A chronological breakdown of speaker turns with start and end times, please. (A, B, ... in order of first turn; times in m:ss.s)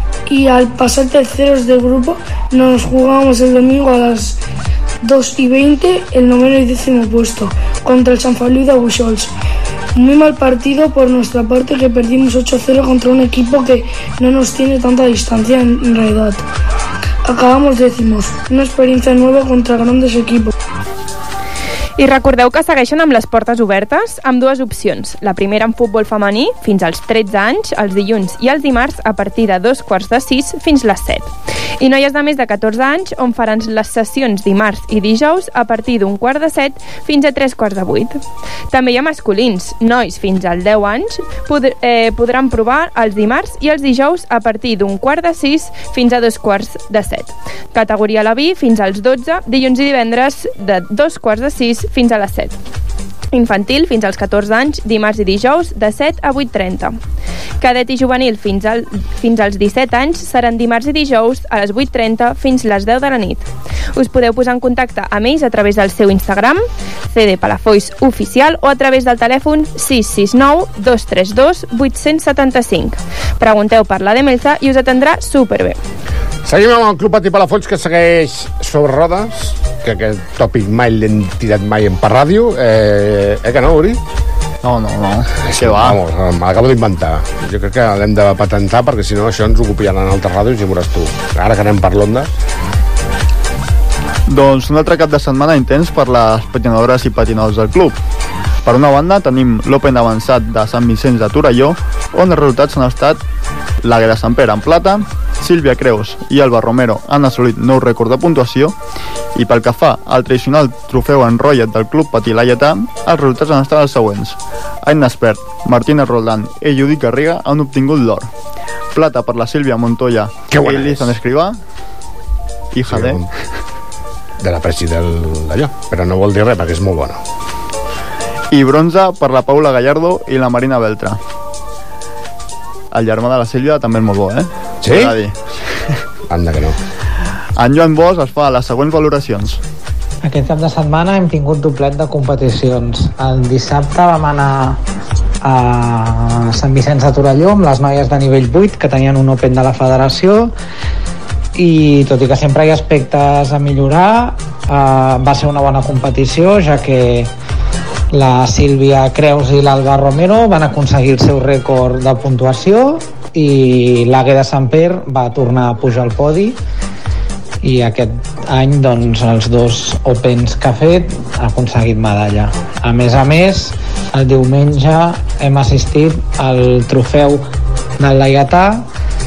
0:00.3-0:04.4 A
0:05.0-0:09.3 A
0:09.9-0:16.4 A
0:17.2-0:20.5 A
0:22.0-0:38.2 B
0:38.7-0:52.5 B
0:53.3-0:57.0 B
0:57.6-1:15.8 B
1:16.4-1:24.0 C
1:24.6-1:26.0 D
1:25.4-1:32.3 C
1:34.3-1:37.9 D
1:38.6-1:43.2 D
1:43.8-1:48.7 D
1:49.3-1:58.3 D
1:58.9-2:01.6 D
2:00.5-2:01.1 C
2:02.7-2:03.2 D
2:02.9-2:03.2 C
2:04.4-2:07.2 C
2:08.5-2:11.2 D
2:12.9-2:15.3 D
2:14.8-2:15.1 C
2:16.3-2:16.8 C
2:17.6-2:19.6 D
2:20.2-2:24.8 E
2:25.4-2:30.5 E
2:31.5-2:37.3 E
2:38.1-2:46.6 E
2:47.6-2:57.4 E
2:58.0-2:58.9 E